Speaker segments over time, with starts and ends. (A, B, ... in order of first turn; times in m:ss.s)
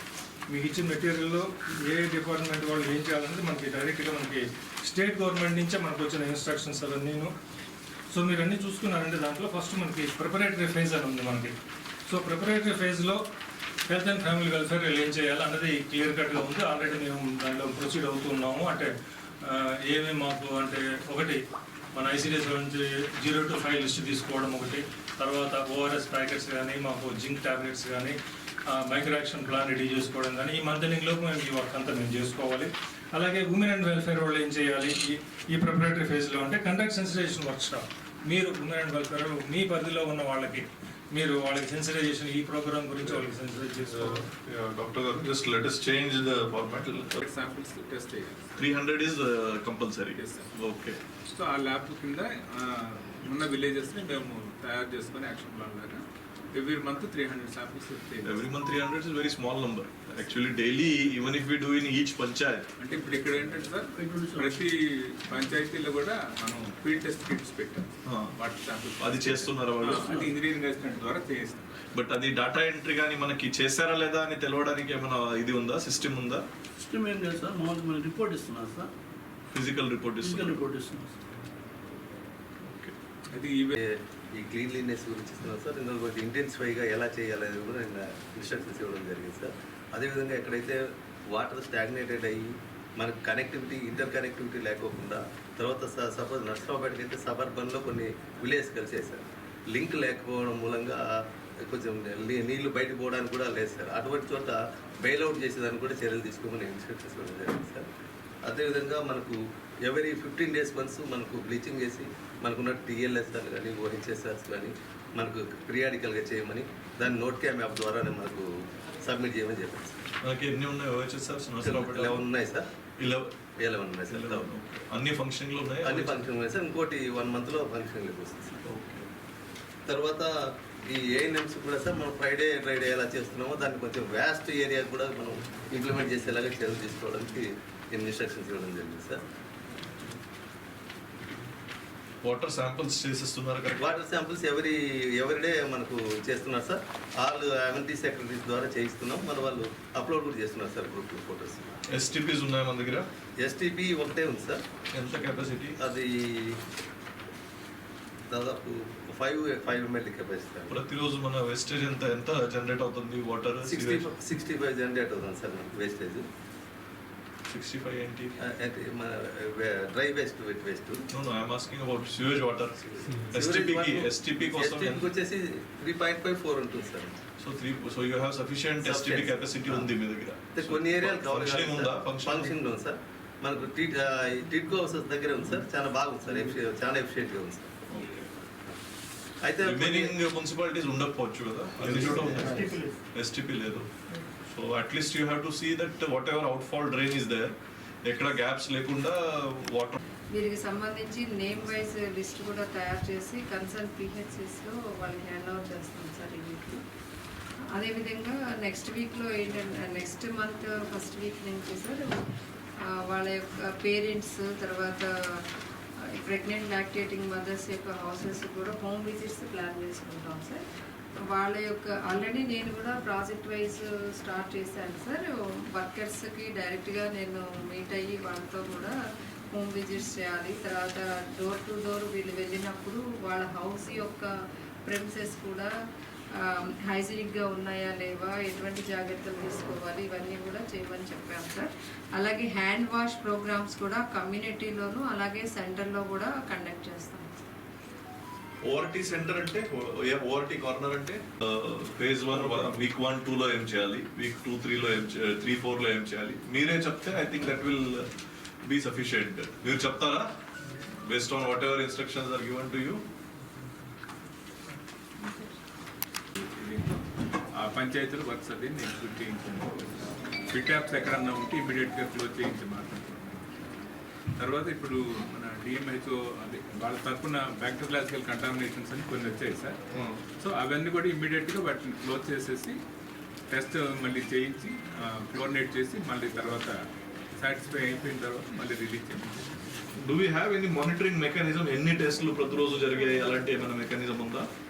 0:00.5-0:07.3 A
0:08.1-0:11.5 A
0:12.1-0:13.2 A
0:13.9-0:18.9 A
0:19.4-0:21.4 A
0:21.9-0:28.2 A
0:28.7-0:44.2 A
0:43.9-0:47.2 B
0:47.2-0:48.5 C
0:48.6-0:51.0 B
0:50.2-0:50.5 C
0:51.3-0:58.4 C
0:58.2-1:02.7 B
1:02.8-1:11.7 C
1:03.8-1:04.6 D
1:08.0-1:08.4 B
1:09.0-1:10.2 B
1:10.0-1:10.3 D
1:11.9-1:16.4 B
1:16.8-1:18.9 D
1:19.5-1:20.6 B
1:20.2-1:21.2 D
1:22.6-1:22.9 B
1:23.3-1:23.8 C
1:23.8-1:47.9 E
1:48.5-1:58.5 E
1:59.0-2:00.1 E
2:00.2-2:02.2 B
2:01.6-2:02.7 E
2:03.0-2:03.3 B
2:03.6-2:04.5 E
2:04.1-2:06.3 B
2:05.8-2:08.6 E
2:08.6-2:09.1 B
2:09.9-2:19.2 E
2:22.2-2:23.8 B
2:23.8-2:31.7 E
2:31.9-2:33.1 B
2:33.4-2:34.6 E
2:34.9-2:35.8 B
2:35.8-2:36.6 E
2:38.3-2:40.8 E
2:40.7-2:44.1 B
2:43.6-2:46.3 E
2:47.5-2:48.4 B
2:48.4-2:51.1 E
2:51.1-2:55.1 B
2:53.2-2:57.2 E
2:57.4-3:02.5 B
2:58.8-2:59.9 E
3:00.6-3:07.7 E
3:07.9-3:08.3 B
3:09.4-3:10.1 E
3:09.6-3:13.9 B
3:14.4-3:17.5 B
3:18.0-3:20.0 B
3:20.3-3:26.8 F
3:27.8-3:32.2 F
3:33.1-3:35.4 F
3:36.2-3:40.6 F
3:41.3-3:49.0 F
3:49.5-3:54.3 F
3:54.9-3:55.7 F
3:56.5-4:07.3 F
4:08.6-4:18.1 B
4:18.6-4:20.3 B
4:21.0-4:23.0 B
4:26.4-4:27.0 C
4:27.6-4:29.9 C
4:30.5-4:33.6 C
4:34.4-4:39.8 C
4:39.9-4:40.2 B
4:40.4-4:42.8 C
4:43.5-4:46.8 C
4:47.4-4:49.6 C
4:49.9-4:54.5 B